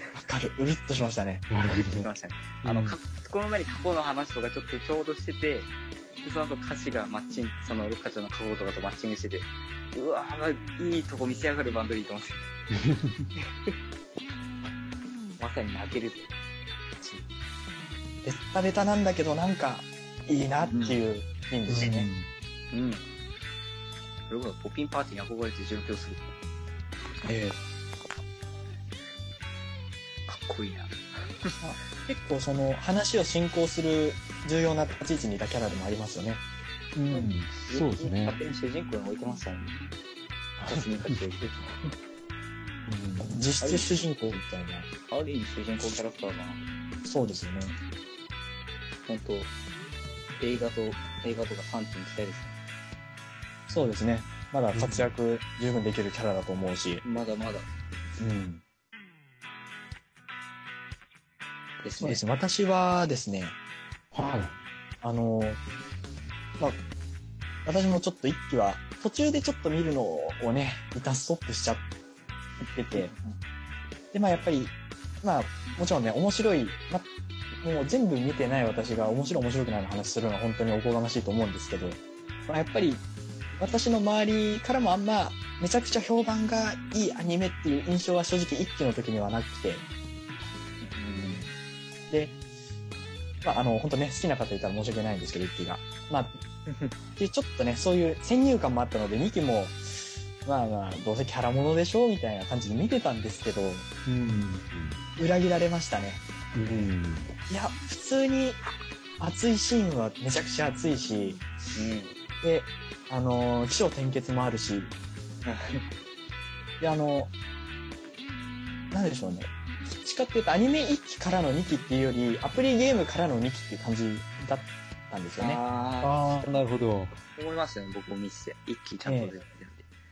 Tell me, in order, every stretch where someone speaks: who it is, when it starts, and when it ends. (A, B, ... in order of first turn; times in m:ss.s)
0:00.1-0:01.5 A
0:01.5-0:02.1 B
0:01.7-0:12.5 C
0:02.6-0:03.0 B
0:12.7-0:13.3 B
0:13.4-0:13.7 C
0:15.4-0:16.3 C
0:18.2-0:22.1 A
0:20.7-0:21.0 C
0:21.7-0:22.3 B
0:22.7-0:23.0 C
0:24.3-0:26.2 C
0:27.2-0:27.6 A
0:30.3-0:31.5 C
0:31.6-0:36.4 A
0:37.0-0:38.4 B
0:37.1-0:39.8 C
0:40.6-0:41.2 B
0:40.7-0:41.7 C
0:42.9-0:44.9 A
0:43.6-0:43.9 C
0:45.1-0:46.6 C
0:47.0-0:47.8 A
0:49.1-0:49.5 C
0:50.4-0:52.5 C
0:53.7-0:57.0 A
0:54.7-0:55.1 B
0:57.0-0:57.7 C
0:58.2-0:58.6 A
1:01.8-1:02.2 C
1:02.0-1:03.6 A
1:04.1-1:04.5 B
1:05.0-1:05.6 A
1:07.6-1:11.9 A
1:12.7-1:13.2 A
1:14.1-1:17.1 A
1:17.6-1:23.0 A
1:23.6-1:29.8 A
1:30.8-1:31.4 A
1:32.1-1:32.4 A
1:33.4-1:43.9 A
1:44.1-1:45.0 B
1:45.2-1:46.2 A
1:46.5-1:47.3 B
1:47.5-1:48.6 A
1:49.2-1:51.4 A
1:51.8-1:52.2 C
1:52.4-1:54.9 A
1:55.4-1:55.8 C
1:56.8-1:57.3 A
1:58.9-2:05.6 A
2:05.4-2:06.6 C
2:06.0-2:07.2 B
2:07.3-2:09.8 C
2:09.0-2:09.3 A